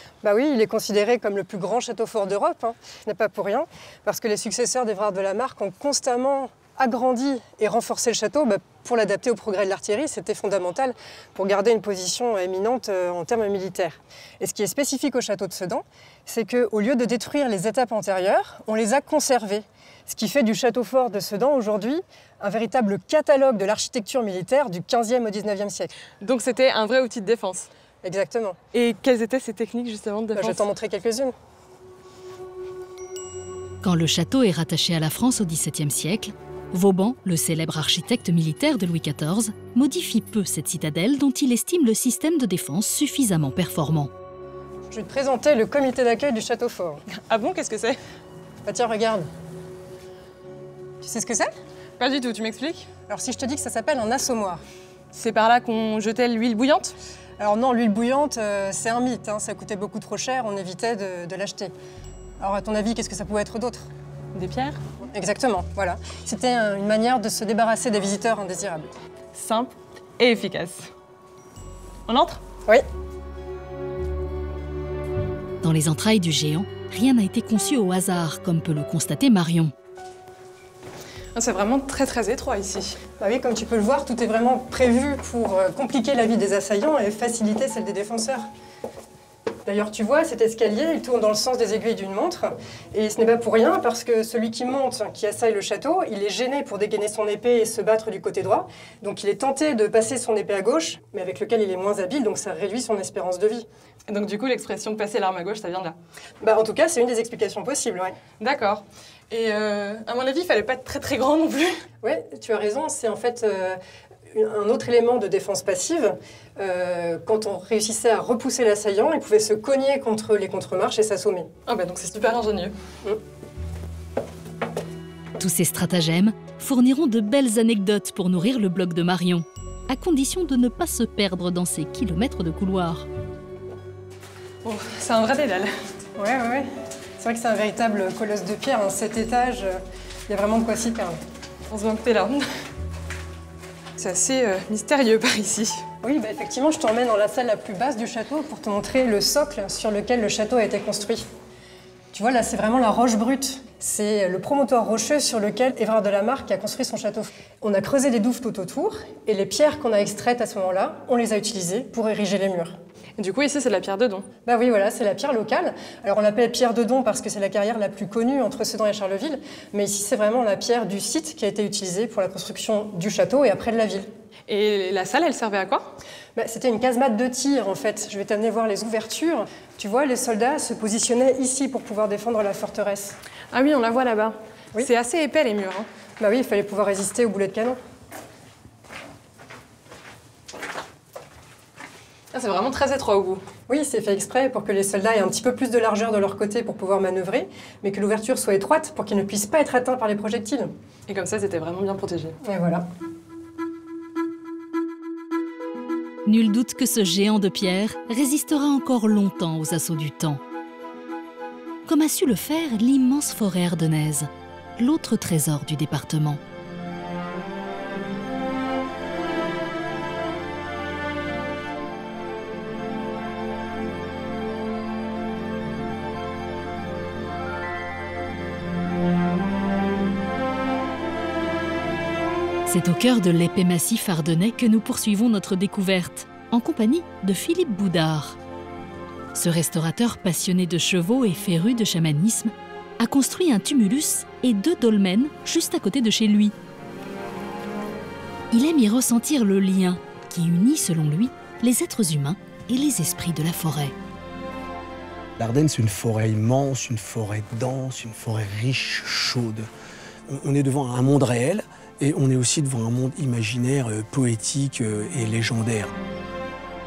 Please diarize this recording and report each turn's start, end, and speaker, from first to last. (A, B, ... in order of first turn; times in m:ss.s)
0:00.2-0:26.0 A
0:26.2-0:27.7 B
0:28.0-0:28.6 A
0:28.7-0:30.6 B
0:30.4-0:31.3 A
0:33.8-0:44.1 C
0:44.9-0:47.0 A
0:47.1-0:48.0 B
0:48.7-0:49.3 A
0:51.0-0:51.5 A
0:52.0-0:52.9 B
0:53.1-0:54.6 A
0:55.1-0:57.0 B
0:57.4-1:01.7 A
1:02.4-1:03.9 A
1:04.3-1:04.8 B
1:05.1-1:08.9 A
1:09.4-1:10.9 B
1:12.1-1:12.4 B
1:15.6-1:19.7 C
1:21.4-1:23.0 B
1:23.2-1:28.5 A
1:29.7-1:43.7 A
1:44.1-1:46.0 B
1:46.4-1:48.2 A
1:48.4-1:51.8 B
1:52.0-1:53.8 A
1:54.3-2:01.5 A
2:01.7-2:02.7 B
2:05.4-2:13.1 C
2:14.6-2:15.7 B
2:16.2-2:16.7 A
2:17.2-2:21.2 A
2:21.7-2:22.4 B
2:24.0-2:25.8 B
2:26.0-2:31.3 A
2:32.1-2:42.8 A
2:43.2-2:44.3 B
2:44.4-2:54.1 A
2:54.5-2:56.0 B
2:56.4-3:03.2 A
3:03.5-3:05.9 B
3:06.2-3:07.8 A
3:12.3-3:13.4 B
3:13.7-3:20.7 A
3:21.1-3:22.4 B
3:22.4-3:22.9 A
3:26.3-3:30.4 C
3:31.9-3:36.4 C
3:52.7-3:58.4 C
3:59.4-4:06.5 C
4:08.5-4:13.9 C
4:15.4-4:19.7 D
4:20.3-4:25.9 D